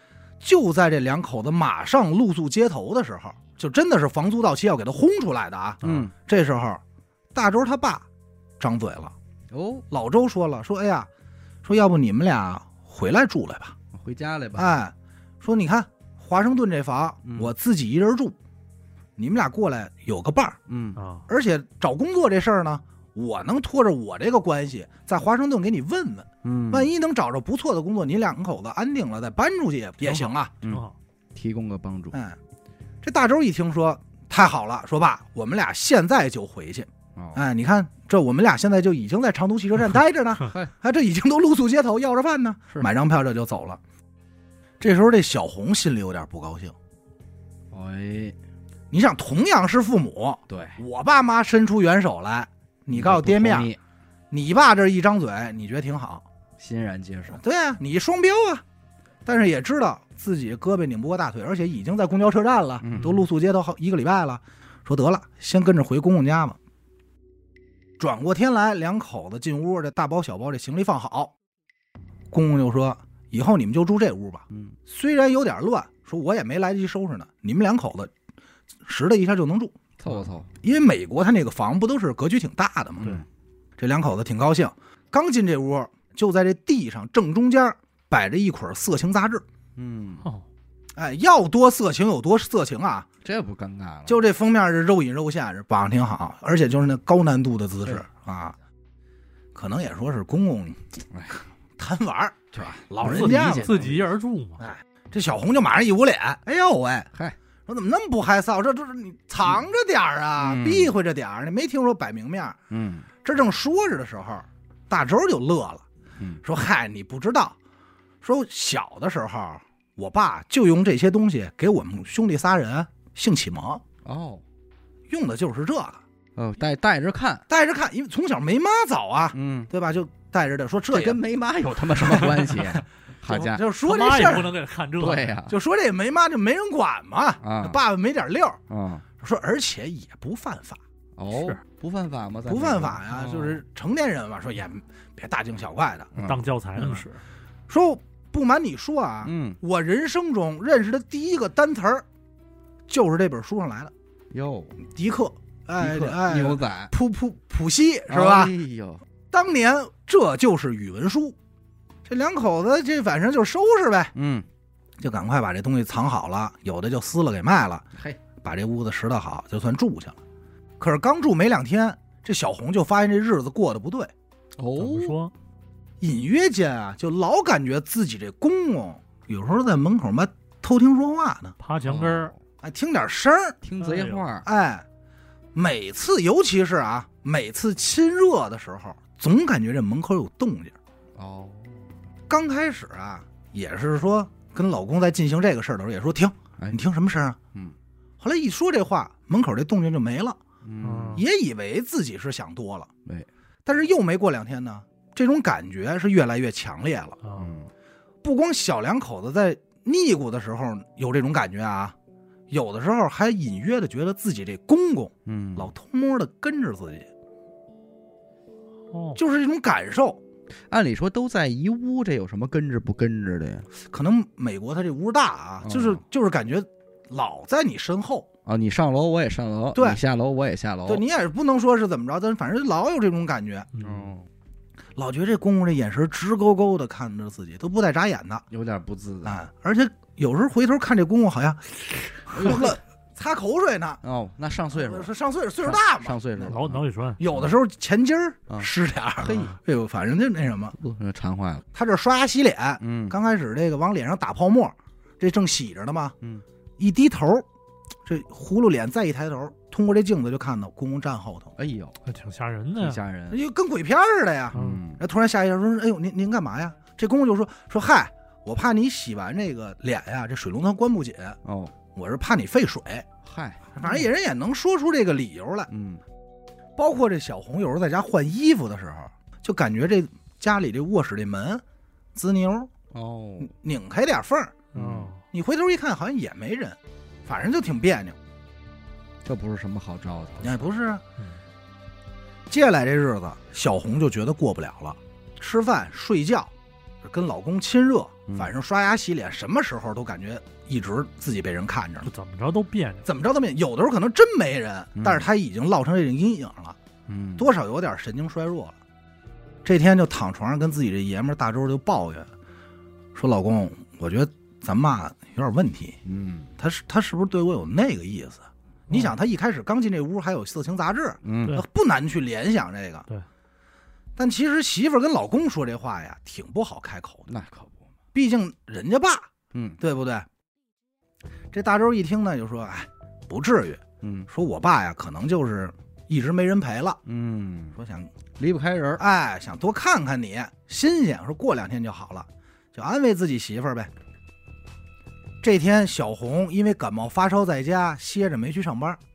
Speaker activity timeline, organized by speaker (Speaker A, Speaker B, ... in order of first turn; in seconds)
Speaker A: 0.4-6.8, 7.3-8.1, 8.6-9.1, 9.9-11.1, 11.6-13.8, 14.6-18.4, 19.2-20.6, 21.3-30.5, 32.1-32.4, 33.0-43.8, 44.8-46.8, 48.9-53.7, 54.3-56.2, 57.3-58.6, 59.2-66.6, 68.0-71.3, 72.3-78.1, 78.8-79.8, 80.6-83.2, 83.8-89.4, 90.9-93.1, 94.1-98.6, 99.5-100.8, 101.8-103.9, 104.6-107.1, 107.7-112.6, 113.2-115.8, 116.4-117.6, 118.2-123.8, 125.1-126.0, 127.5-131.2, 132.0-134.5, 135.5-138.6, 139.2-140.8, 142.5-146.1, 146.8-147.0, 147.7-152.0, 152.9-153.9, 154.9-158.6, 159.3-161.4, 162.0-164.1, 165.0-167.9, 168.4-170.2, 170.8-174.1, 176.0-181.6, 182.6-183.6, 184.4-184.9, 185.5-190.8, 192.3-197.4, 198.2-200.4, 201.1-202.9, 203.6-207.2, 208.2-212.0, 212.5-217.1, 219.1-220.2, 223.8-228.3, 229.8-230.0, 230.9-233.7, 235.0-238.4, 239.2-244.0, 244.7-246.5, 247.2-250.8, 251.7-256.1, 256.8-257.5, 258.1-261.5, 263.3-271.4, 271.9-273.1, 273.8-275.7, 276.8-281.6, 282.1-282.7, 283.4-284.6, 285.3-288.2, 290.4-291.0, 292.5-302.1, 303.0-306.8, 307.4-308.8, 309.6-312.3, 313.1-316.0, 316.6-323.1, 324.1-327.3, 328.1-329.3, 329.8-330.3, 331.5-337.0, 337.8-338.1, 339.0-343.9, 345.4-349.0
Speaker B: 5.8-6.1, 9.5-9.8, 13.9-14.8, 17.2-17.5, 20.7-21.0, 26.4-26.9, 30.6-32.2, 37.2-37.4, 47.7-48.4, 50.5-50.8, 52.9-53.8, 56.6-57.4, 62.8-63.2, 74.5-74.8, 80.0-80.5, 89.8-90.2, 93.2-94.2, 101.1-101.4, 102.5-104.1, 110.4-110.9, 112.7-113.1, 116.2-116.4, 124.0-124.4, 126.4-127.5, 129.3-129.7, 130.9-133.6, 135.0-135.6, 137.4-137.8, 138.7-139.0, 141.2-143.6, 146.2-146.5, 149.2-149.6, 154.3-154.8, 155.8-156.9, 158.1-159.0, 164.1-164.5, 174.6-175.2, 181.8-182.4, 183.6-184.5, 191.2-191.9, 200.6-201.2, 207.4-207.7, 215.2-215.7, 220.7-223.7, 225.6-226.0, 228.5-231.0, 233.8-234.3, 238.5-239.4, 242.3-242.8, 244.0-245.1, 245.6-246.8, 248.5-249.6, 250.7-251.7, 252.8-253.2, 261.6-262.0, 262.8-263.4, 264.5-265.0, 271.4-271.7, 273.2-273.7, 275.7-276.0, 282.9-283.5, 284.8-285.1, 289.2-290.6, 305.0-305.3, 307.1-307.5, 316.0-316.5, 321.2-321.6, 327.3-327.9, 329.5-329.8, 334.0-334.3, 337.0-337.8, 338.4-339.0
Speaker C: 20.9-21.3, 30.0-30.9, 103.0-104.7, 133.8-135.3, 146.2-147.2, 174.8-175.3, 181.6-182.3, 183.8-184.2, 200.8-201.2, 207.2-207.5, 218.9-219.2, 233.7-234.1, 246.4-247.2, 249.3-249.5, 262.0-263.0, 264.5-264.8, 284.7-285.2, 302.0-303.1